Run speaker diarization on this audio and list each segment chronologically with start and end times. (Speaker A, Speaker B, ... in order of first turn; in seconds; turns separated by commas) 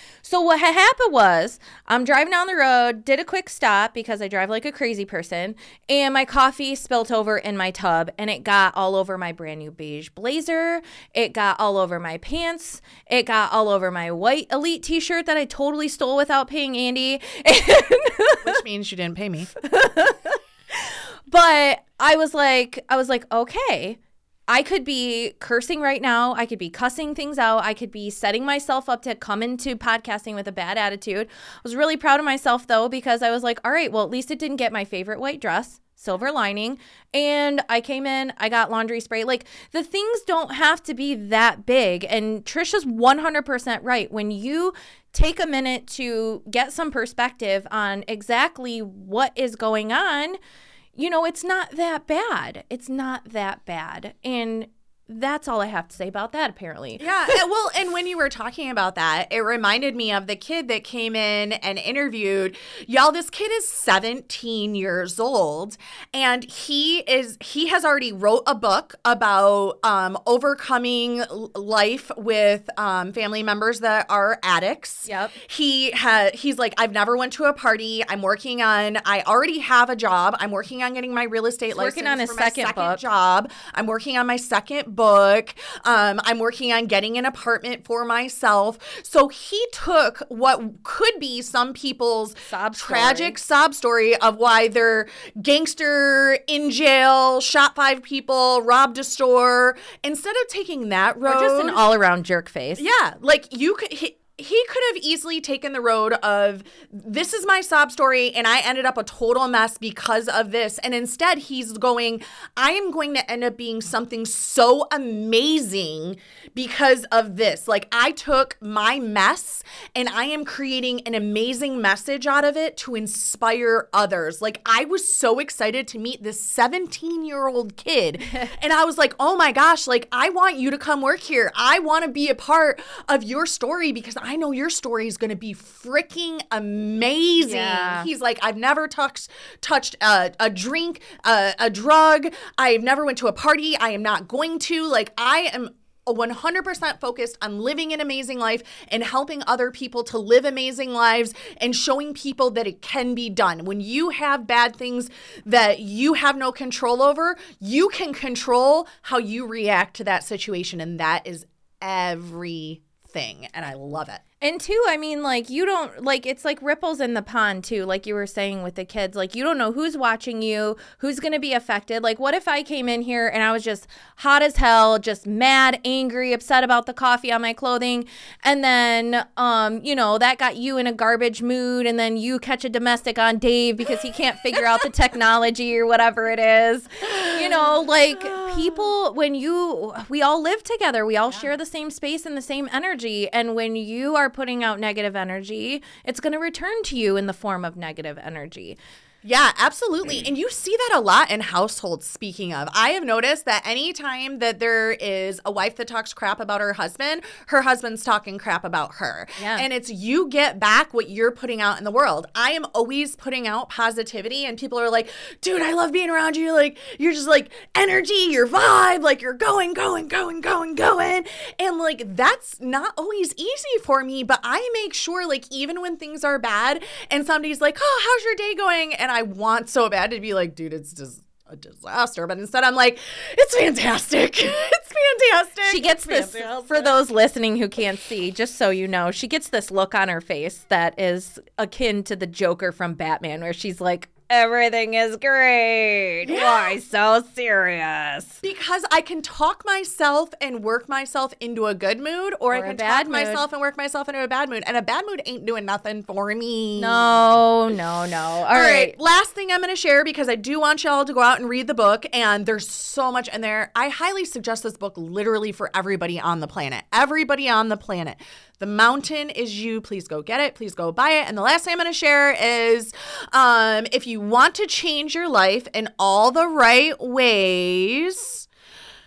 Speaker A: 0.2-18.6, Speaker B: 18.4-19.5, Speaker A: 19.6-50.4, Speaker A: 51.0-57.4, Speaker B: 57.0-101.8, Speaker A: 75.1-75.4, Speaker A: 81.7-83.0, Speaker A: 92.5-93.3, Speaker A: 101.2-102.8, Speaker B: 102.8-164.2, Speaker A: 137.4-138.1, Speaker A: 164.4-198.8, Speaker B: 188.2-188.9, Speaker B: 199.2-237.0, Speaker A: 209.4-209.7, Speaker A: 235.7-248.4, Speaker B: 246.2-246.8, Speaker B: 248.4-257.2, Speaker A: 252.5-253.5, Speaker A: 256.8-259.0, Speaker B: 258.5-278.5